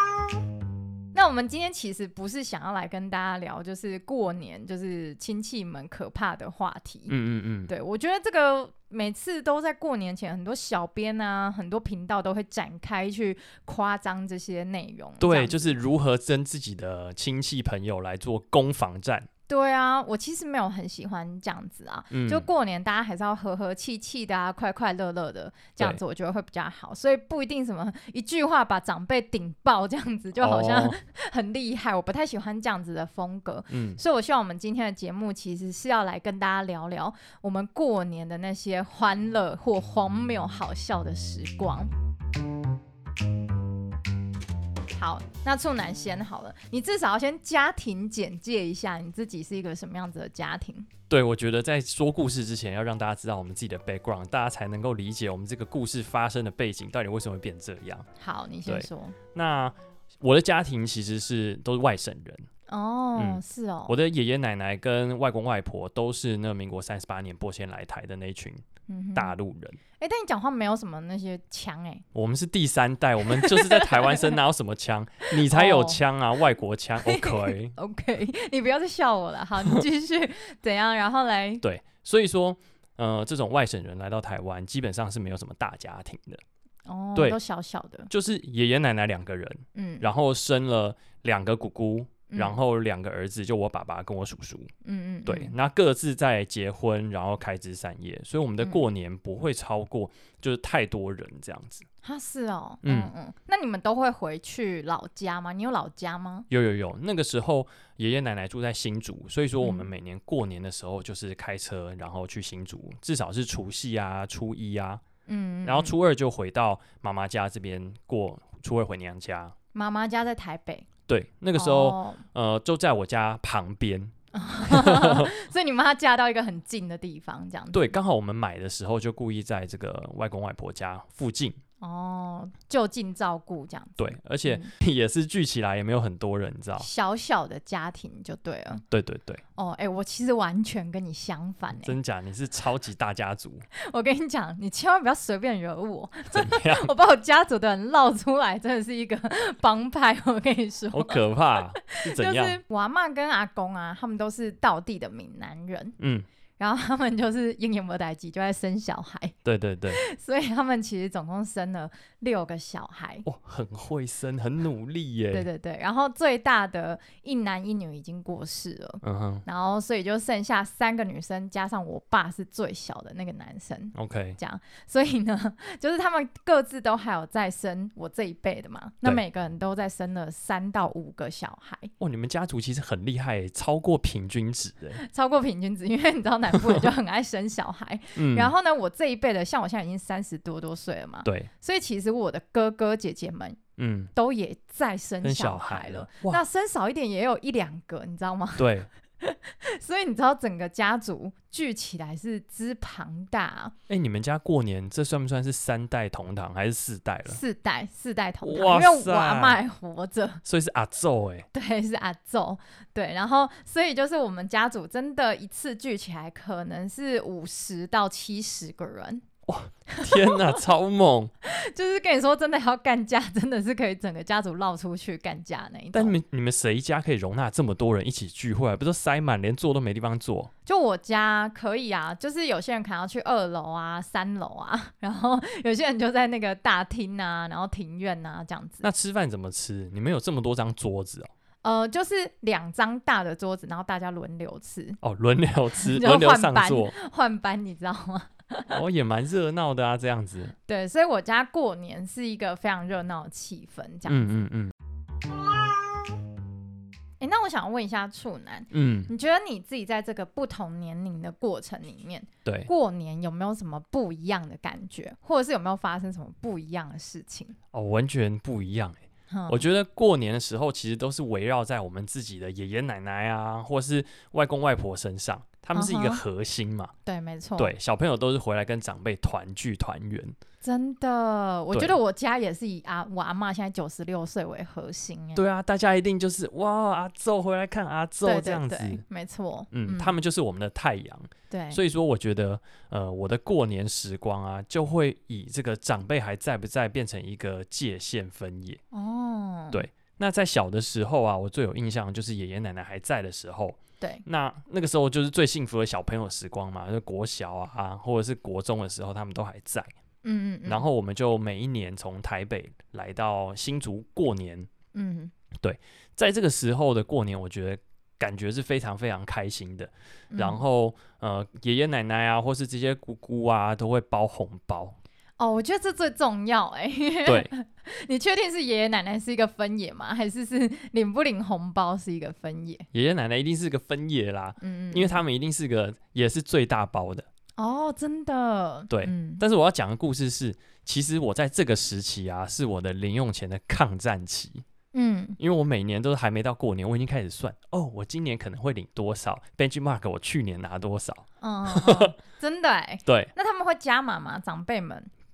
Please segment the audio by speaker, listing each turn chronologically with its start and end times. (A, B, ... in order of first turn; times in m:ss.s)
0:01.1-0:07.1 A
0:07.1-0:07.7 B
0:07.7-0:15.8 A
0:15.2-0:19.3 B
0:19.5-0:41.9 A
0:22.1-0:22.5 B
0:30.4-0:31.0 B
0:33.7-0:34.0 B
0:44.9-0:50.9 A
0:51.1-0:58.1 B
0:58.2-0:59.2 A
0:58.6-1:02.5 B
1:02.7-1:04.0 A
1:03.2-1:08.6 B
1:08.9-1:09.4 A
1:09.2-1:09.8 B
1:10.0-1:12.0 A
1:12.1-1:17.7 B
1:13.2-1:14.4 A
1:15.3-1:16.0 A
1:17.0-1:21.6 A
1:21.6-1:26.4 B
1:26.9-1:28.1 A
1:28.1-1:34.7 B
1:29.8-1:30.1 A
1:32.3-1:32.6 A
1:34.8-1:35.5 A
1:35.2-1:41.8 B
1:42.0-1:46.5 A
1:42.8-1:43.1 B
1:46.5-1:55.0 B
1:49.6-1:49.9 A
1:55.3-1:56.0 A
1:55.6-1:59.5 B
1:59.7-2:00.9 A
2:01.1-2:05.3 B
2:01.6-2:02.2 A
2:04.3-2:07.9 A
2:07.7-2:11.6 B
2:11.8-2:14.7 A
2:14.0-2:16.9 B
2:16.8-2:18.8 A
2:18.8-2:19.4 B
2:19.6-2:22.0 A
2:21.8-2:23.6 B
2:23.8-2:36.0 A
2:26.3-2:26.9 B
2:30.9-2:32.6 B
2:36.0-2:36.3 B
2:36.6-2:39.4 A
2:39.4-2:40.0 B
2:39.9-2:43.2 A
2:43.2-2:45.5 B
2:45.3-3:01.9 A
2:49.0-2:49.4 B
2:53.9-2:54.4 B
3:02.0-3:05.0 B
3:05.0-3:13.6 A
3:06.5-3:06.8 B
3:08.2-3:08.5 B
3:11.2-3:11.5 B
3:13.8-3:14.1 B
3:14.1-3:23.8 A
3:15.2-3:16.4 B
3:18.6-3:18.9 B
3:23.9-3:27.4 B
3:27.3-3:30.4 A
3:28.4-3:29.6 B
3:30.4-3:31.5 B
3:31.5-3:39.2 A
3:39.5-3:41.3 B
3:39.9-3:40.5 A
3:41.4-3:46.2 A
3:45.9-3:50.5 B
3:50.7-3:58.9 A
3:58.8-4:01.3 B
4:01.6-4:05.0 A
4:05.0-4:06.9 B
4:05.8-4:08.8 A
4:08.7-4:10.6 B
4:10.7-4:14.3 A
4:14.1-4:14.7 B
4:17.2-4:27.6 A
4:18.7-4:19.1 B
4:22.4-4:22.7 B
4:27.7-4:36.9 B
4:29.3-4:29.6 A
4:35.8-4:36.2 A
4:37.0-4:37.7 A
4:37.6-4:40.4 B
4:40.6-4:45.4 A
4:45.4-4:49.0 B
4:48.2-4:50.2 A
4:49.7-4:58.8 B
4:51.5-4:51.8 A
4:58.9-4:59.9 A
4:59.7-5:09.9 B
5:10.2-5:10.9 A
5:10.7-5:14.7 B
5:14.9-5:15.3 A
5:15.6-5:25.0 B
5:20.3-5:20.6 A
5:25.4-5:32.9 A
5:27.3-5:27.5 B
5:32.9-5:37.3 B
5:34.6-5:35.2 A
5:37.6-5:39.4 A
5:38.9-5:44.6 B
5:44.9-5:45.4 A
5:45.4-5:52.2 B
5:51.4-5:55.1 A
5:53.1-5:53.3 B